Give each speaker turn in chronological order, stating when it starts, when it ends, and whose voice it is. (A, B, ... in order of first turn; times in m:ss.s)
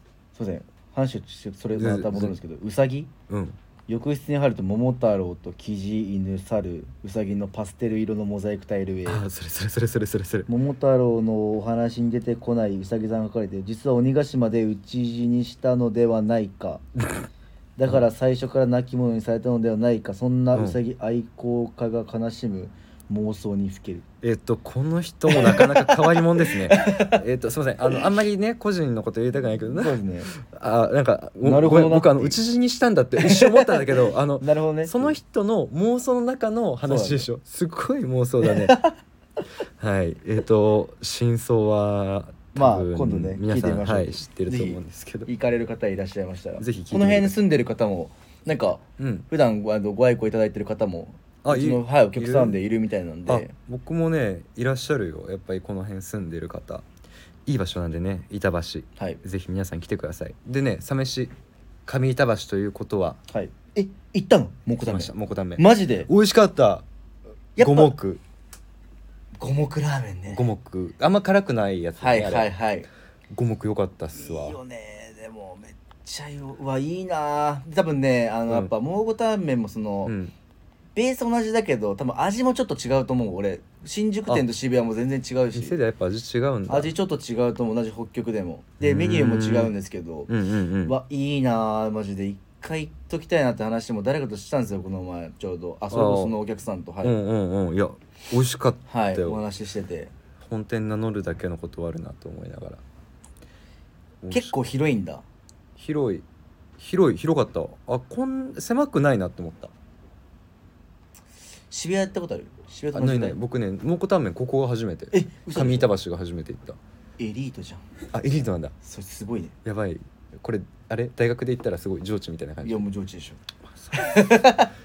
0:00.3-0:03.1 A
0:01.7-0:02.3 B
0:03.3-0:03.6 B
0:03.9-0:09.2 A
0:09.0-0:10.5 B
0:10.5-0:16.8 A
0:17.8-0:24.0 A
0:20.5-0:20.8 B
0:24.2-0:38.8 B
0:25.3-0:27.2 A
0:29.7-0:30.3 A
0:31.4-0:32.4 A
0:33.2-0:35.2 A
0:36.8-0:37.2 A
0:38.4-0:38.9 A
0:39.8-0:45.3 B
0:42.5-0:53.5 A
0:46.6-0:47.4 B
0:49.0-0:49.3 B
0:51.4-0:52.6 B
0:53.3-0:56.8 B
0:57.4-1:01.3 B
1:01.8-1:03.2 B
1:03.3-1:06.1 A
1:04.8-1:06.8 B
1:07.6-1:07.9 A
1:07.6-1:08.2 B
1:09.4-1:10.4 A
1:10.3-1:12.5 B
1:12.0-1:12.9 A
1:13.3-1:14.6 B
1:14.1-1:20.1 A
1:20.0-1:20.3 B
1:20.9-1:25.8 A
1:25.5-1:26.9 B
1:26.7-1:30.3 A
1:28.8-1:29.7 B
1:30.3-1:31.0 B
1:30.8-1:37.1 A
1:35.9-1:36.4 B
1:37.0-1:39.4 B
1:38.9-1:40.1 A
1:40.4-1:42.8 B
1:44.2-1:44.5 B
1:44.3-1:45.2 A
1:45.8-1:46.2 B
1:46.8-1:49.7 B
1:51.7-1:53.4 A
1:52.9-1:56.8 B
1:55.1-1:55.9 A
1:57.2-1:57.8 A
1:58.1-1:58.7 B
1:58.8-1:59.6 A
1:59.6-2:02.8 B
2:02.6-2:03.4 A
2:03.7-2:04.4 B
2:03.9-2:04.7 A